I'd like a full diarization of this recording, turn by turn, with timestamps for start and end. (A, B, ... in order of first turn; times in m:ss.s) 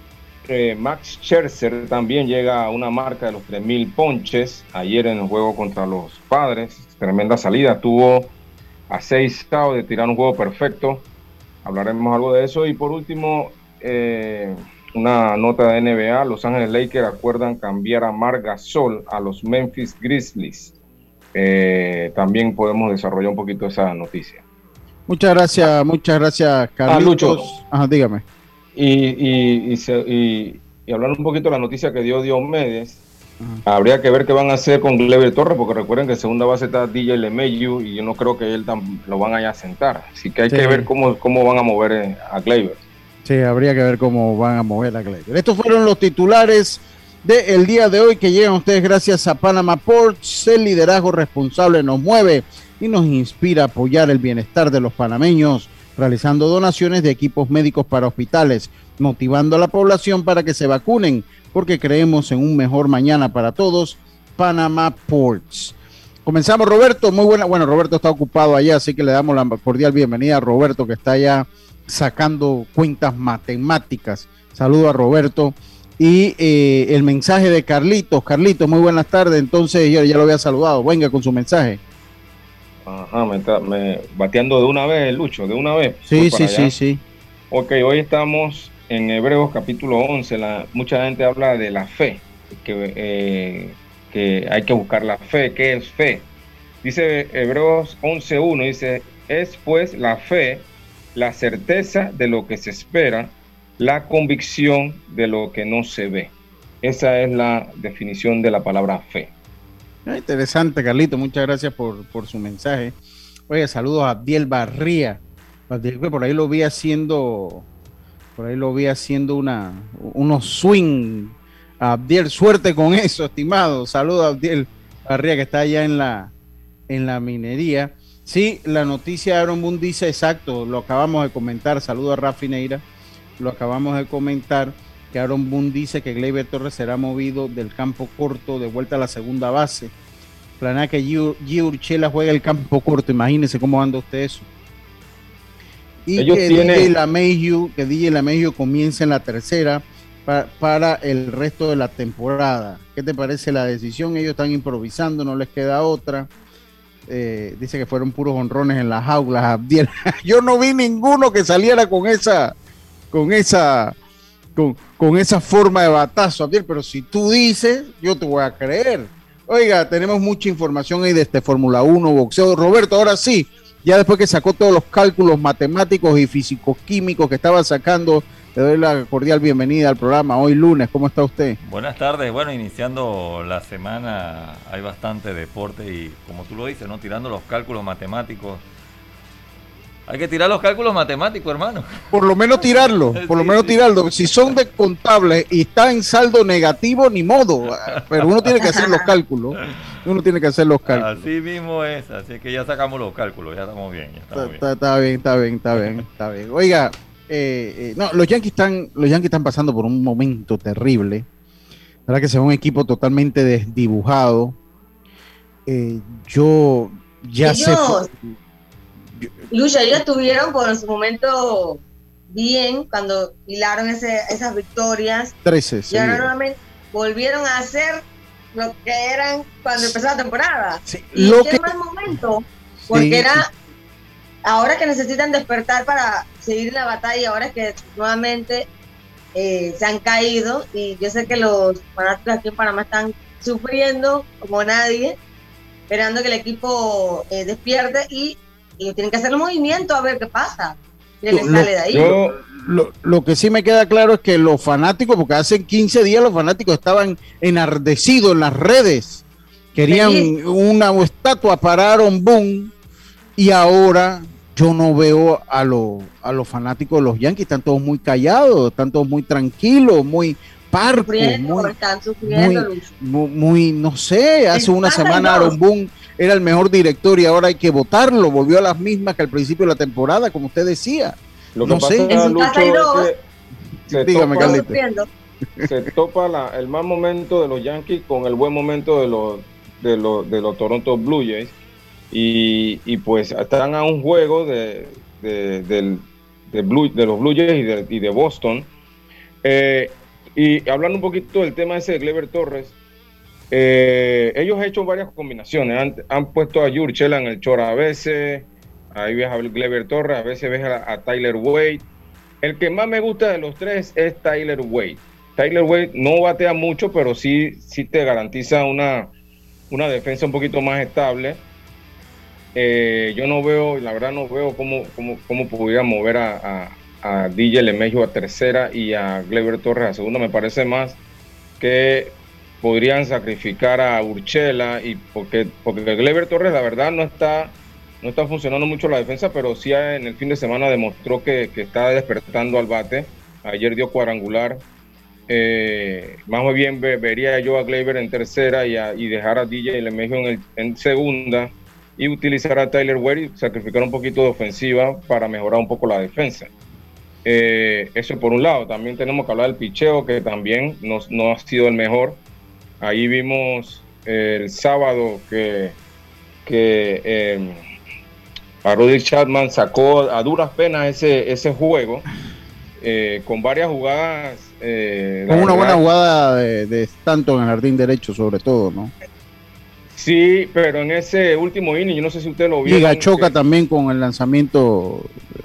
0:00.4-0:08.3 A
0:08.9-0:11.0 A
0:11.6-0:20.7 A
0:21.3-0:24.4 A
0:25.1-0:28.2 B
0:26.9-0:27.5 A
0:28.7-0:33.0 A
0:33.6-0:42.8 A
0:40.5-0:40.9 B
0:43.2-1:21.8 B
1:22.8-1:26.7 A
1:26.1-1:27.0 B
1:27.5-1:36.3 A
1:36.8-1:49.3 A
1:50.0-1:52.9 B
1:53.5-1:57.6 B
1:58.4-2:06.3 B
2:06.9-2:12.8 B
2:13.4-2:19.9 B
2:20.6-2:24.5 B
2:26.0-2:36.3 B
2:26.2-2:26.9 A
2:37.0-2:42.5 B
2:43.1-2:44.0 B
2:44.6-3:01.6 B
3:01.6-3:08.6 C
3:10.1-3:12.1 C
3:12.1-3:21.2 B
3:12.9-3:13.8 C
3:18.6-3:19.0 D
3:20.9-3:24.6 C
3:24.3-3:31.2 B
3:32.1-3:34.6 B
3:35.6-3:38.3 B
3:37.4-3:38.1 D
3:39.5-3:45.3 D
3:45.4-3:46.3 B
3:45.9-3:48.0 D
3:48.5-3:53.5 D
3:50.8-3:51.7 B
3:52.8-3:53.4 B
3:54.4-3:58.7 D
3:59.3-4:05.2 D
4:05.9-4:12.1 D
4:11.3-4:19.2 B
4:11.9-4:12.4 A
4:19.7-4:22.7 B
4:19.9-4:20.3 D
4:23.4-4:42.2 B
4:31.0-4:32.9 D
4:34.5-4:35.5 D
4:41.6-4:43.1 A
4:42.1-4:43.1 D
4:43.9-4:44.6 A
4:43.9-4:44.8 B
4:44.4-4:45.1 D
4:45.6-4:51.5 A
4:52.1-4:58.7 A
4:59.4-5:02.7 A
5:03.5-5:11.8 A
5:12.4-5:19.1 A
5:19.7-5:21.4 A
5:22.6-5:31.0 A
5:31.6-5:44.6 A
5:45.3-5:56.5 A
5:57.2-6:02.2 A
6:02.8-6:05.8 A
6:06.4-6:07.6 A
6:08.6-6:12.0 A
6:12.8-6:15.8 A
6:15.3-6:18.9 B
6:19.9-6:23.3 A
6:22.6-6:25.2 B